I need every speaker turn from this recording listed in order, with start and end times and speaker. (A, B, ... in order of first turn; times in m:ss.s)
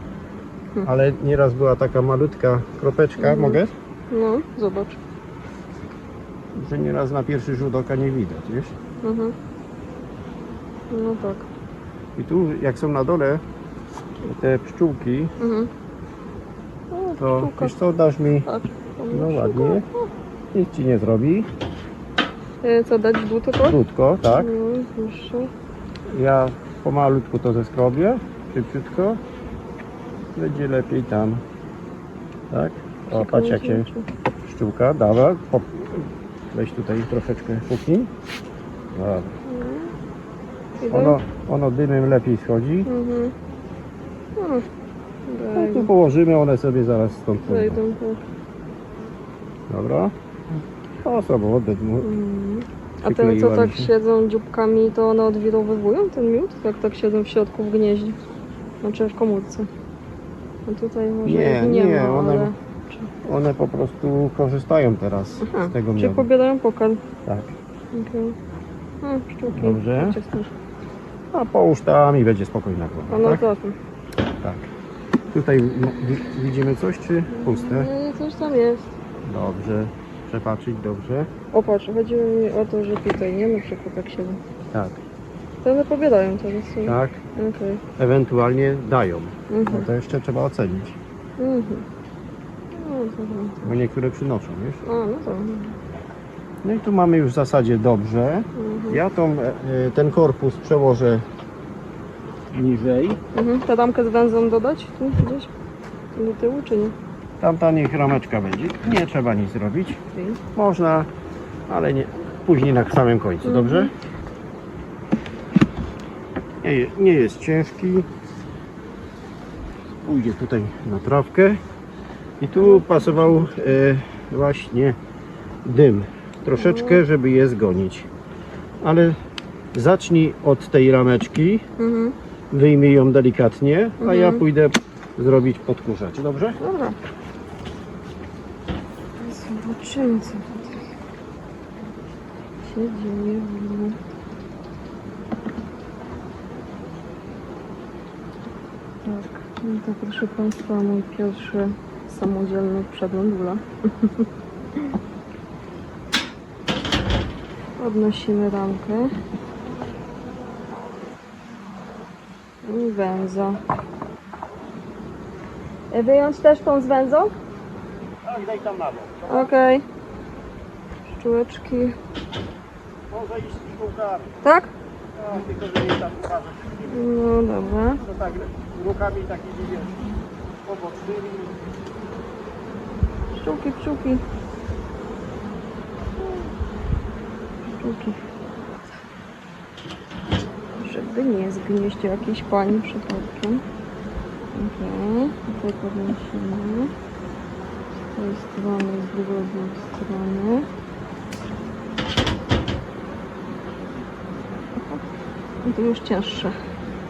0:00.8-0:03.7 A
0:03.2-0:03.6 B
0:04.1-0:05.0 B
0:06.5-0:08.7 A
0:09.0-0:09.3 B
0:10.9-0:11.5 B
0:12.2-0:13.4 A
0:14.2-0:15.3 A
0:15.4-0:15.7 B
0:16.9-0:17.7 B
0:17.2-0:18.5 A
0:18.4-0:20.0 B
0:19.1-0:19.8 A
0:20.5-0:21.5 A
0:22.6-0:23.8 B
0:23.6-0:24.5 A
0:24.3-0:25.5 B
0:26.1-0:29.2 A
0:30.4-0:31.4 A
0:32.5-0:33.9 A
0:33.1-0:34.0 B
0:34.4-0:38.1 A
0:38.9-0:39.3 A
0:39.4-0:39.9 B
0:40.8-0:41.2 B
0:40.9-0:42.9 A
0:42.8-0:43.3 B
0:44.4-0:44.6 B
0:45.3-0:45.9 B
0:45.5-0:47.8 A
0:47.5-0:48.2 B
0:49.7-0:50.1 A
0:51.0-0:52.1 A
0:52.0-0:58.2 B
0:53.0-0:53.9 A
0:58.8-0:59.7 B
1:00.6-1:03.1 B
1:01.2-1:02.5 A
1:03.2-1:06.3 A
1:05.5-1:07.0 B
1:07.2-1:07.5 A
1:07.9-1:08.4 B
1:09.0-1:10.5 B
1:09.5-1:10.2 A
1:11.3-1:13.4 A
1:13.1-1:13.7 B
1:14.4-1:14.7 A
1:15.3-1:17.9 A
1:17.4-1:18.9 B
1:19.2-1:21.3 A
1:21.5-1:24.4 B
1:24.7-1:25.0 A
1:25.6-1:27.8 B
1:26.8-1:27.2 A
1:28.0-1:31.0 A
1:29.5-1:29.9 B
1:31.4-1:31.8 B
1:32.7-1:33.6 B
1:33.6-1:34.8 A
1:34.8-1:35.8 B
1:36.6-1:41.2 A
1:38.6-1:39.0 B
1:42.5-1:43.2 A
1:43.3-1:45.5 B
1:46.2-1:46.9 B
1:47.4-1:50.0 A
1:50.5-1:51.1 A
1:51.7-1:53.9 A
1:53.4-1:53.9 B
1:56.6-1:58.1 A
2:00.0-2:01.6 A
2:02.4-2:05.0 A
2:02.6-2:02.8 B
2:05.6-2:08.1 A
2:06.6-2:07.0 B
2:08.8-2:09.2 A
2:09.7-2:11.6 A
2:11.8-2:12.1 B
2:12.5-2:16.6 A
2:14.0-2:14.4 B
2:16.6-2:17.0 B
2:19.2-2:20.7 B
2:22.6-2:24.0 B
2:29.0-2:34.9 B
2:37.8-2:39.1 B
2:42.6-2:43.6 B
2:45.9-2:47.3 B
2:48.2-2:49.5 A
2:49.3-2:49.8 B
2:51.1-2:52.0 B
2:53.1-2:54.4 A
2:54.4-2:54.7 B
2:55.2-2:57.1 A
2:56.9-2:58.0 B
2:58.0-3:00.0 A
3:00.6-3:01.6 A
3:03.3-3:04.2 B
3:07.8-3:08.2 B
3:10.8-3:13.6 B
3:14.5-3:16.9 B
3:18.1-3:20.7 B
3:25.6-3:26.5 B